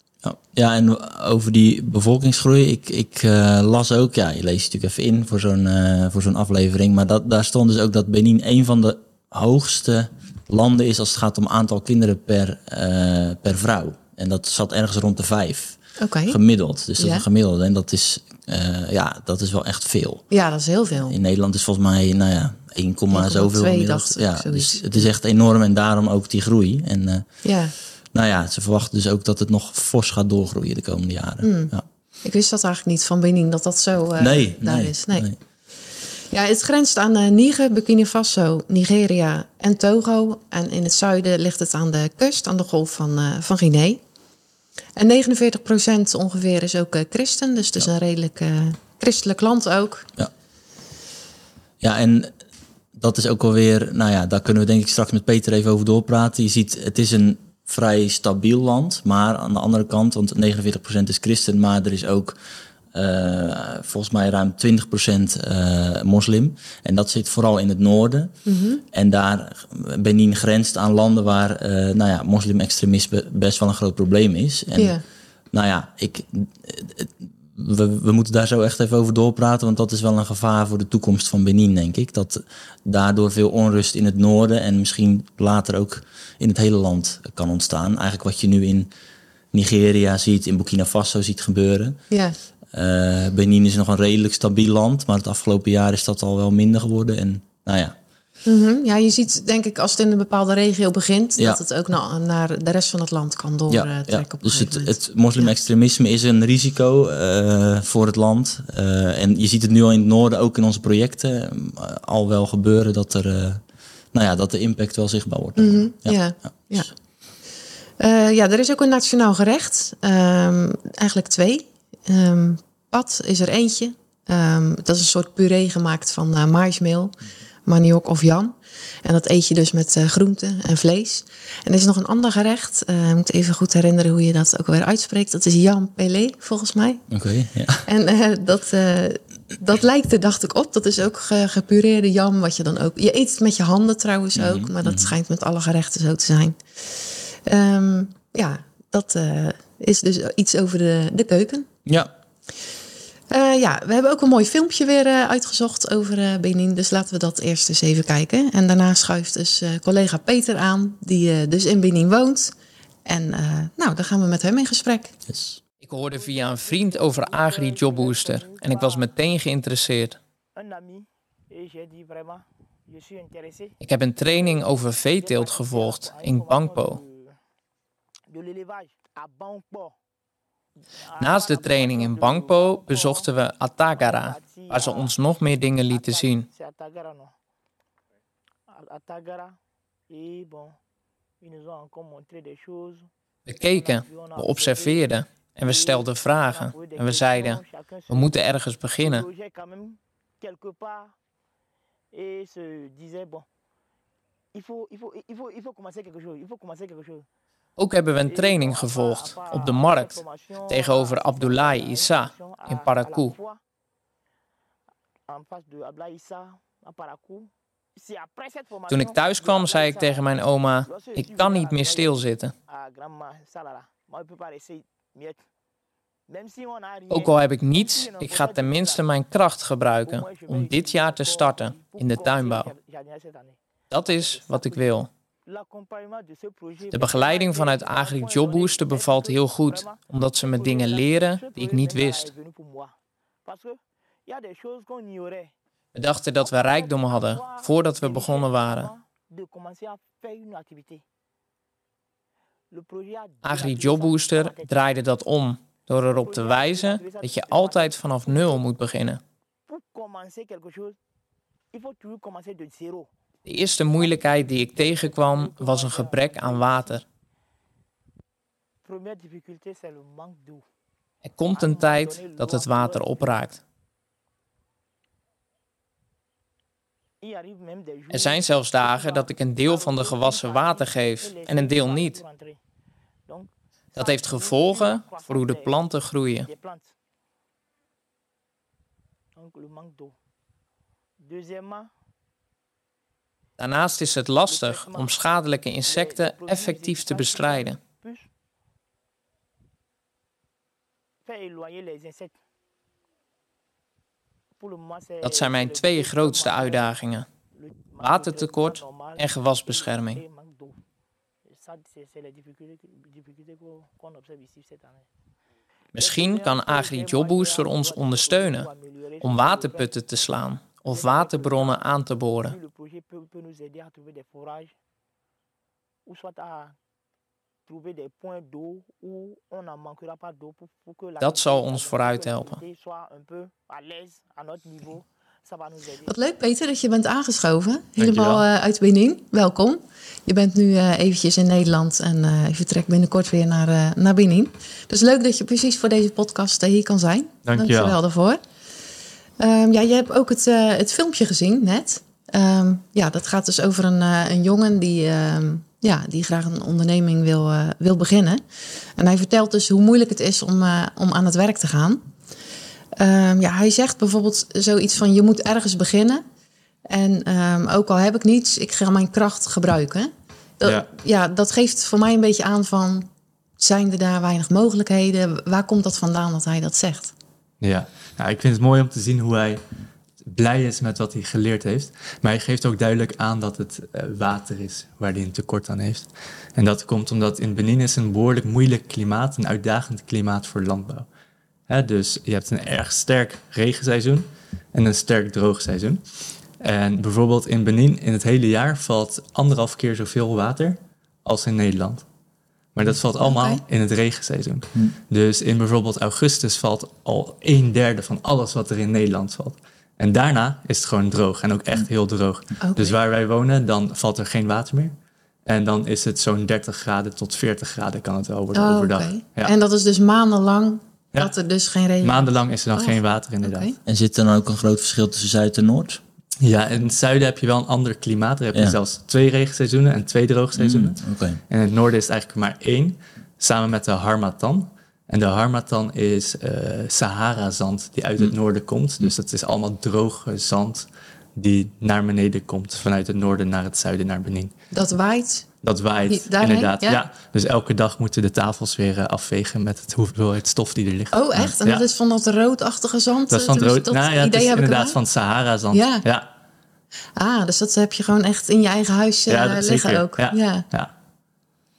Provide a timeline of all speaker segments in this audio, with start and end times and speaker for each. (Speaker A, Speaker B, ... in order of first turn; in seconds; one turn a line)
Speaker A: 0.2-20.2
Speaker B: 16.0-16.4
Speaker B: 17.0-17.2
Speaker B: 20.3-21.1
Speaker A: 21.1-27.2
Speaker B: 23.1-25.1
Speaker B: 27.4-27.7
Speaker A: 28.1-31.8
Speaker B: 31.4-31.7
Speaker B: 32.2-35.3
Speaker A: 34.2-35.4
Speaker B: 36.3-44.0
Speaker B: 45.0-50.1
Speaker A: 51.8-52.3
Speaker A: 52.9-62.4
Speaker A: 62.9-68.4
Speaker B: 68.5-68.8
Speaker A: 68.9-75.0
Speaker B: 74.7-75.0
Speaker A: 75.5-88.9
Speaker A: 89.5-92.0
Speaker B: 92.1-92.4
Speaker A: 92.7-97.9
Speaker B: 98.4-105.5
Speaker A: 103.7-116.9
Speaker B: 115.6-116.9
Speaker B: 118.0-127.1
Speaker B: 127.6-137.0
Speaker A: 137.1-137.9
Speaker B: 137.8-151.7
Speaker A: 144.3-145.1
Speaker A: 151.8-152.1
Speaker B: 153.3-162.5
Speaker B: 163.0-165.1
Speaker A: 165.3-165.6
Speaker C: 165.8-170.2
Speaker D: 166.1-169.2
Speaker D: 170.5-177.3
Speaker C: 173.8-177.0
Speaker D: 178.3-179.9
Speaker D: 181.0-183.3
Speaker C: 181.2-186.5
Speaker D: 183.9-185.2
Speaker D: 185.9-187.3
Speaker D: 188.7-189.6
Speaker D: 190.1-190.8
Speaker D: 191.4-193.1
Speaker C: 193.4-199.3
Speaker D: 193.6-201.1
Speaker D: 202.1-203.4
Speaker D: 204.5-207.3
Speaker C: 207.8-213.3
Speaker D: 208.2-213.6
Speaker D: 215.3-225.4
Speaker C: 218.9-222.5
Speaker D: 226.3-229.1
Speaker C: 227.1-232.7
Speaker D: 230.0-234.9
Speaker C: 233.9-235.1
Speaker D: 235.4-245.5
Speaker C: 236.9-242.3
Speaker C: 245.9-248.9
Speaker D: 246.4-251.0
Speaker D: 252.7-254.7
Speaker C: 253.4-259.2
Speaker D: 256.0-258.6
Speaker D: 259.7-261.0
Speaker D: 261.7-263.1
Speaker C: 263.4-267.0
Speaker D: 264.0-267.0
Speaker D: 268.8-270.6
Speaker C: 271.2-273.6
Speaker D: 271.5-273.4
Speaker D: 277.2-282.6
Speaker C: 278.1-282.2
Speaker D: 283.3-285.8
Speaker C: 283.9-286.5
Speaker D: 286.4-286.9
Speaker D: 289.4-290.1
Speaker D: 291.2-291.9
Speaker C: 293.6-297.8
Speaker D: 294.4-295.1
Speaker D: 295.8-298.3
Speaker D: 301.2-302.4
Speaker D: 304.6-306.9
Speaker C: 305.2-307.3
Speaker D: 307.6-310.8
Speaker C: 308.0-310.2
Speaker D: 311.5-315.1
Speaker C: 315.9-318.7
Speaker D: 315.9-319.9
Speaker C: 319.2-322.6
Speaker D: 320.9-321.8
Speaker D: 322.4-324.7
Speaker D: 326.0-326.8
Speaker D: 327.6-336.1
Speaker C: 331.2-332.6
Speaker B: 336.1-348.4
Speaker E: 338.0-338.5
Speaker E: 347.4-348.0
Speaker B: 349.4-358.4
Speaker B: 359.0-362.0
Speaker B: 363.0-366.2
Speaker B: 366.9-373.1
Speaker B: 373.6-377.1
Speaker E: 377.6-379.6
Speaker E: 380.2-391.1
Speaker E: 391.7-396.0
Speaker E: 396.6-402.1
Speaker E: 402.7-414.9
Speaker B: 403.2-403.6
Speaker B: 412.6-412.9
Speaker E: 415.4-419.5
Speaker B: 418.5-423.7
Speaker E: 422.0-423.8
Speaker A: 423.9-426.0
Speaker E: 426.4-444.5
Speaker A: 430.5-431.4
Speaker B: 444.7-445.5
Speaker E: 445.6-451.9
Speaker B: 446.1-447.0
Speaker B: 451.1-455.0
Speaker E: 453.3-456.3
Speaker B: 455.7-456.0
Speaker B: 457.1-460.6
Speaker E: 459.3-460.9